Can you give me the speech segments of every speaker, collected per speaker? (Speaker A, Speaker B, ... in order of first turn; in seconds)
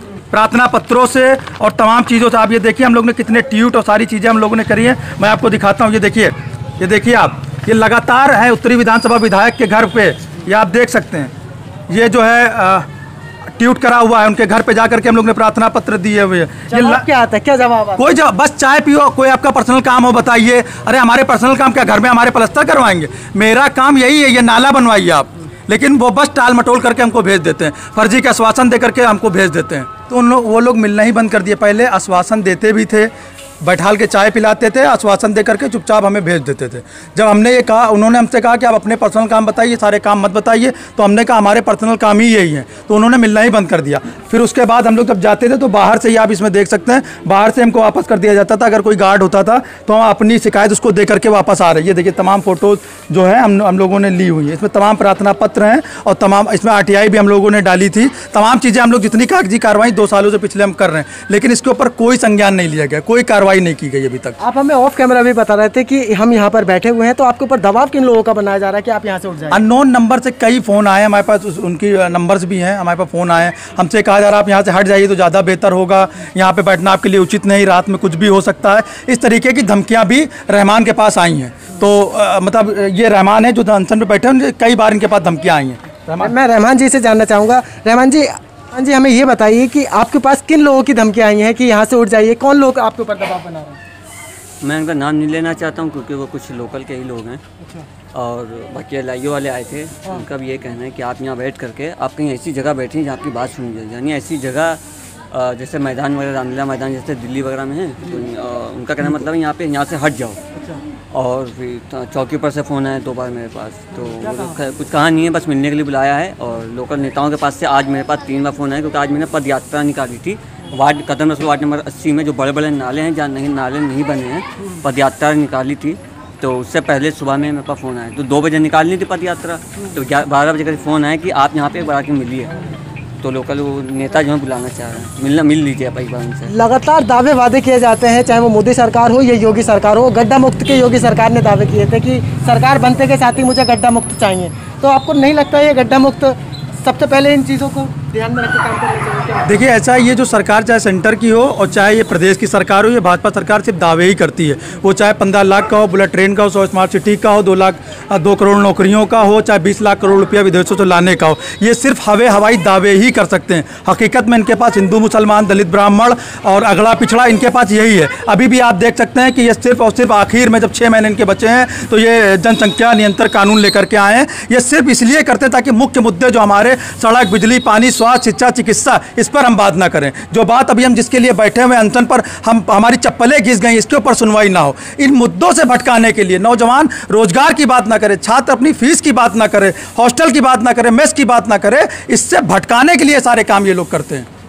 Speaker A: 0.3-11.3, 11.9-12.8, 13.6-17.1, 18.0-64.3, 69.5-86.3, 149.5-194.3
Speaker B: 16.7-18.1, 64.4-69.6, 86.2-93.8, 136.5-149.6
Speaker C: 94.6-97.4, 98.1-104.8, 105.3-110.4, 111.1-132.5, 133.2-136.5